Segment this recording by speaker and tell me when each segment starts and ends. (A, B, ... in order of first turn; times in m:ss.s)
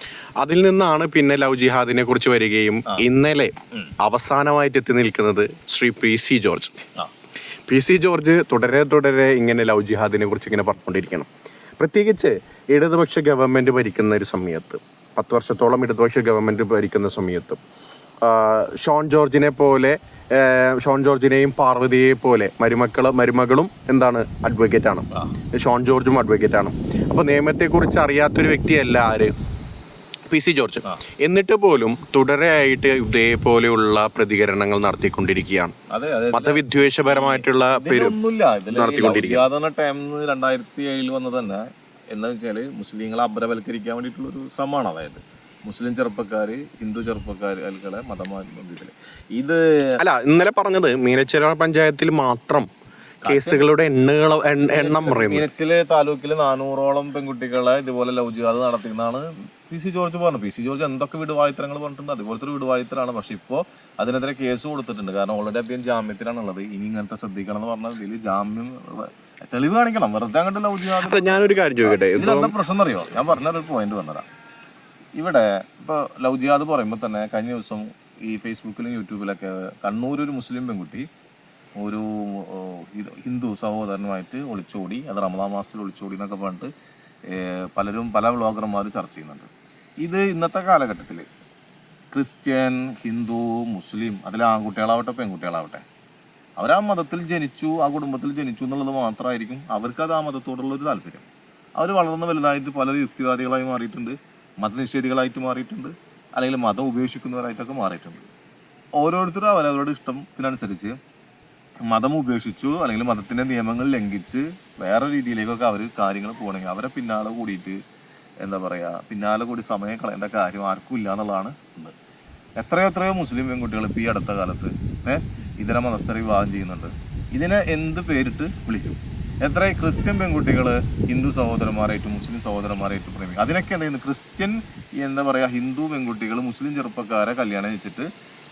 0:00.4-0:06.8 A
0:07.7-0:17.6 A
0:18.2-0:29.3 A
0:30.3-0:35.7 A
0:35.9-0:49.6 B
0:36.3-0:38.2 A
0:38.7-0:39.4 A
0:50.0-0:52.7 A
0:53.2-0:53.6 B
0:53.2-0:55.5 A
0:54.7-1:14.3 B
1:10.9-1:12.5 A
1:15.1-1:21.1 B
1:21.8-1:26.7 B
1:27.3-1:29.5 B
1:30.0-1:31.3 B
1:32.1-1:35.8 B
1:36.6-1:48.3 B
1:49.0-1:51.0 B
1:51.9-1:57.8 B
1:58.4-2:01.9 B
2:02.6-2:18.1 B